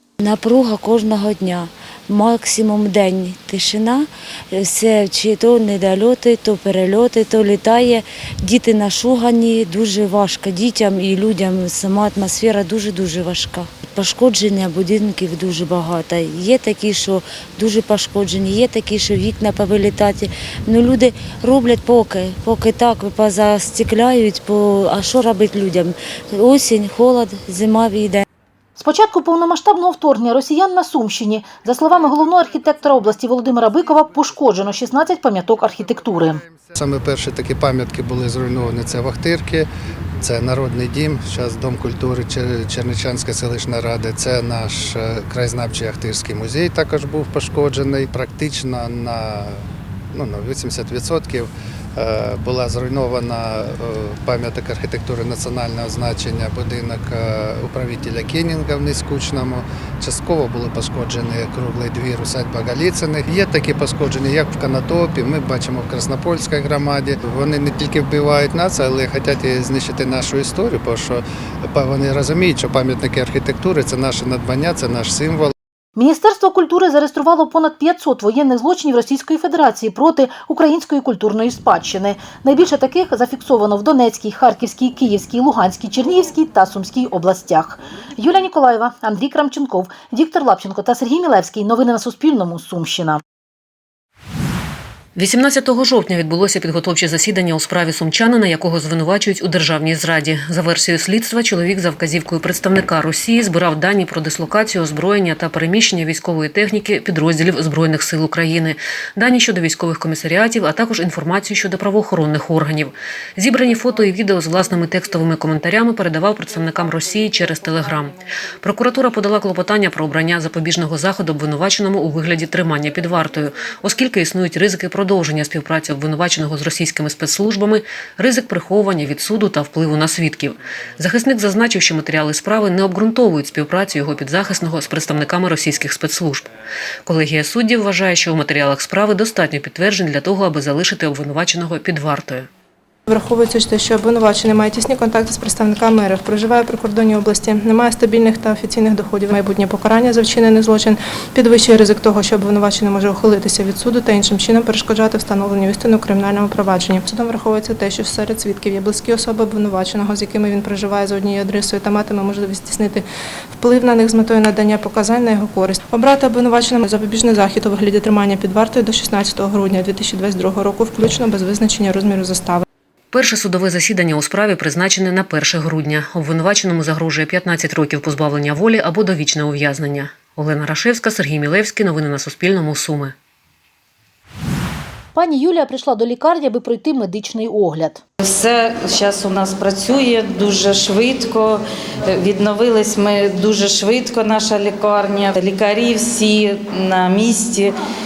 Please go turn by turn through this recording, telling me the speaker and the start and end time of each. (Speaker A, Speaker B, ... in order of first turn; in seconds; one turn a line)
Speaker A: 0.2-28.2
Speaker B: 28.8-36.4
Speaker C: 36.8-39.7
Speaker C: 40.2-49.6
Speaker C: 50.1-75.5
Speaker B: 76.0-93.2
Speaker D: 95.2-136.5
Speaker D: 137.1-142.5
Speaker E: 143.1-163.1
Speaker E: 163.6-172.7
Speaker D: 173.1-183.1
Speaker B: 185.2-188.0
Speaker F: 188.2-197.7